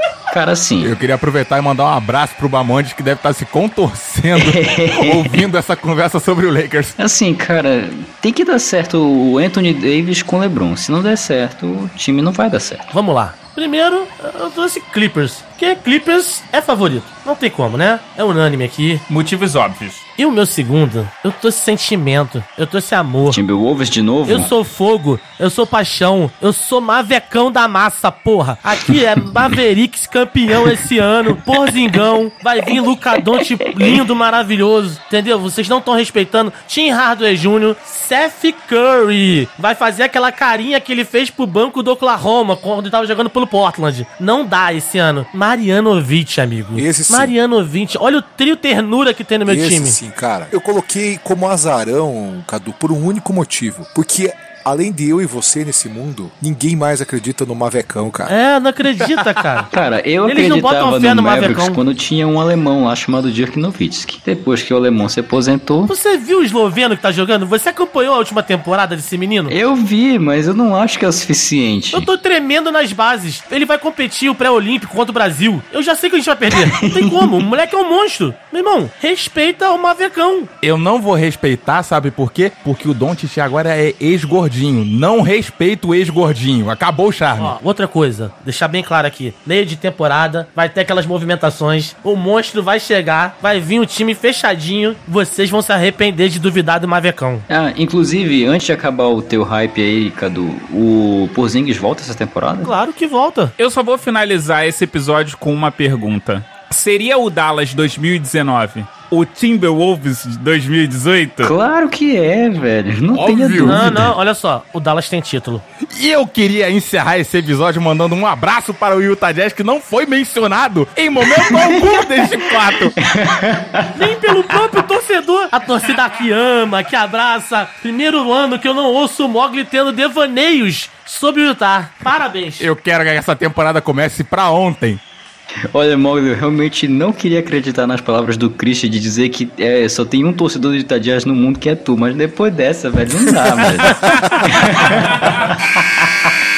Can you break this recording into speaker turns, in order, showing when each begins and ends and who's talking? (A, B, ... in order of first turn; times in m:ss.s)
0:00.3-0:00.9 A
0:00.8-0:07.0 B
0:04.3-0:05.4 A
0:07.0-0:12.9 A
0:12.9-0:19.0 C
0:19.1-0:20.0 D
0:20.2-0:23.4 C
0:23.2-0:24.5 A
0:24.3-0:50.0 C
0:46.7-0:47.3 E
0:49.4-0:58.3 E
0:58.3-0:59.7 C
0:59.7-1:05.9 A
1:00.2-1:01.8 C
1:05.9-1:09.5 C
1:09.5-1:12.1 A
1:11.9-1:20.5 C
1:16.5-1:17.3 A
1:20.6-1:27.6 B
1:27.4-1:37.4 C
1:37.5-1:42.7 A
1:42.6-1:43.5 C
1:43.6-1:51.5 D
1:51.4-1:54.1 A
1:53.1-1:53.9 B
1:53.6-1:55.6 C
1:55.9-2:02.9 B
2:01.2-2:02.0 A
2:03.0-2:04.0 A
2:03.9-2:12.7 C
2:12.1-2:15.0 B
2:15.7-2:26.1 A